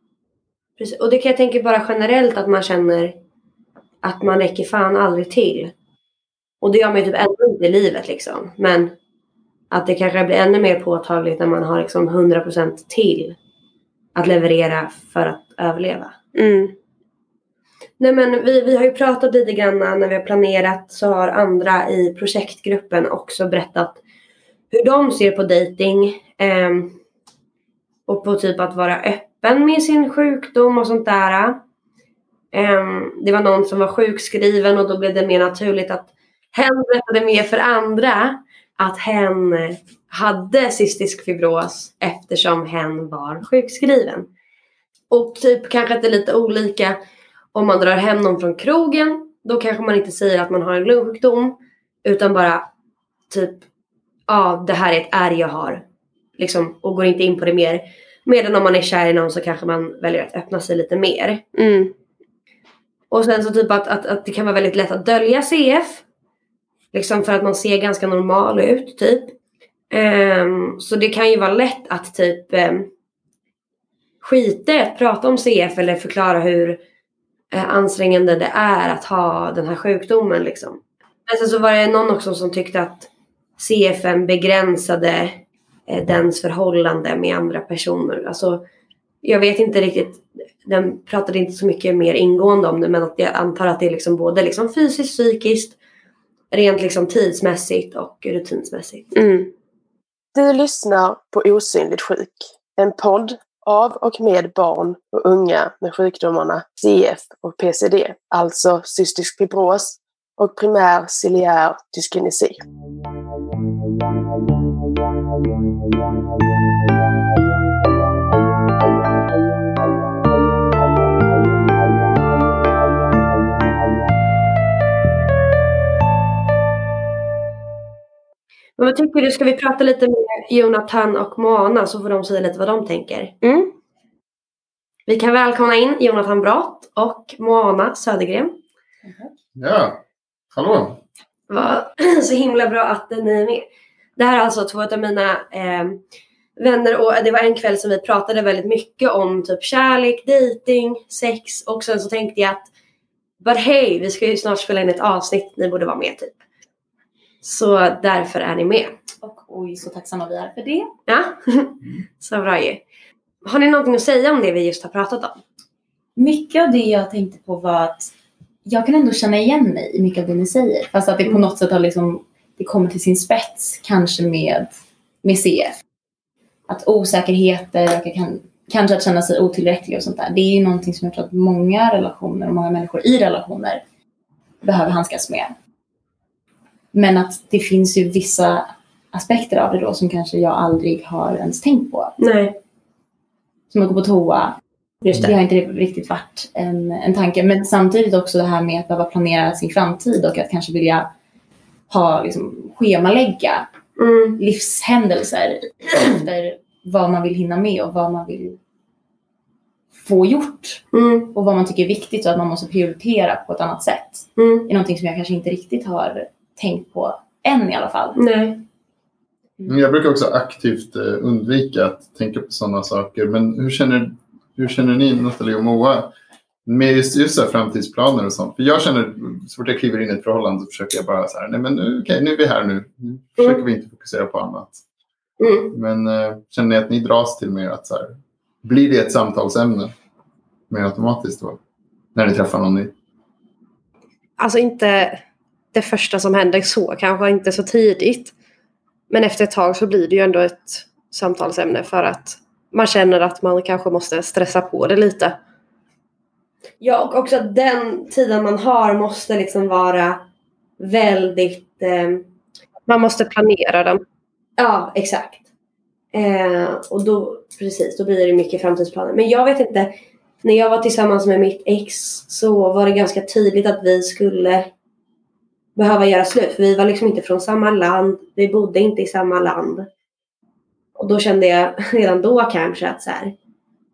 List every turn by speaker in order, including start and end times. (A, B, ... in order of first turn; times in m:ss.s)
0:00.8-0:03.2 A
0:04.0-0:05.7 A
0:06.6-0:08.9 A
0:09.7-0:13.4 A
0:14.2-0:16.2 A
0:16.4-0:16.7 B
0:18.0-0:24.0 A
0:24.7-0:27.0 A
0:28.1-0:31.6 A
0:32.5-0:44.3 A
0:45.1-0:47.0 A
0:47.5-0:52.7 A
0:53.3-0:53.6 A
0:54.3-0:55.8 A
0:56.4-1:01.5 A
1:01.6-1:01.9 B
1:03.1-1:06.0 A
1:06.9-1:09.4 A
1:09.9-1:12.9 A
1:14.2-1:16.8 A
1:17.5-1:28.6 A
1:29.2-1:35.8 A
1:36.5-1:39.1 A
1:39.1-1:39.5 B
1:40.3-1:52.6 C
2:08.8-2:13.4 A
2:13.4-2:13.7 B
2:15.1-2:18.6 A
2:19.0-2:19.3 D
2:19.6-2:20.0 E
2:20.6-2:21.0 E
2:21.5-2:26.0 A
2:26.6-2:32.7 A
2:33.4-2:36.4 A
2:37.4-2:38.9 A
2:39.2-2:40.9 D
2:41.1-2:42.8 A
2:43.4-2:45.4 A
2:46.2-2:48.1 D
2:48.7-2:54.7 D
2:55.2-2:55.8 D
2:56.7-3:03.8 D
3:04.6-3:05.5 D
3:06.9-3:12.2 D
3:12.2-3:12.6 A
3:13.7-3:21.1 D
3:21.9-3:23.7 D
3:24.0-3:24.4 A
3:24.4-3:28.6 D
3:30.0-3:38.2 D
3:30.9-3:31.3 A
3:34.4-3:34.7 A
3:38.2-3:38.6 A
3:39.7-3:46.1 E
3:46.7-3:54.8 E
3:55.4-3:55.7 A
3:55.7-3:59.9 E
4:00.7-4:01.6 E
4:02.2-4:02.9 E
4:04.4-4:05.2 B
4:05.7-4:08.3 B
4:09.1-4:15.4 B
4:16.8-4:20.2 A
4:20.8-4:22.2 A
4:22.9-4:24.0 B
4:24.6-4:25.4 A
4:26.1-4:34.7 A
4:35.8-4:39.9 A
4:41.0-4:43.3 A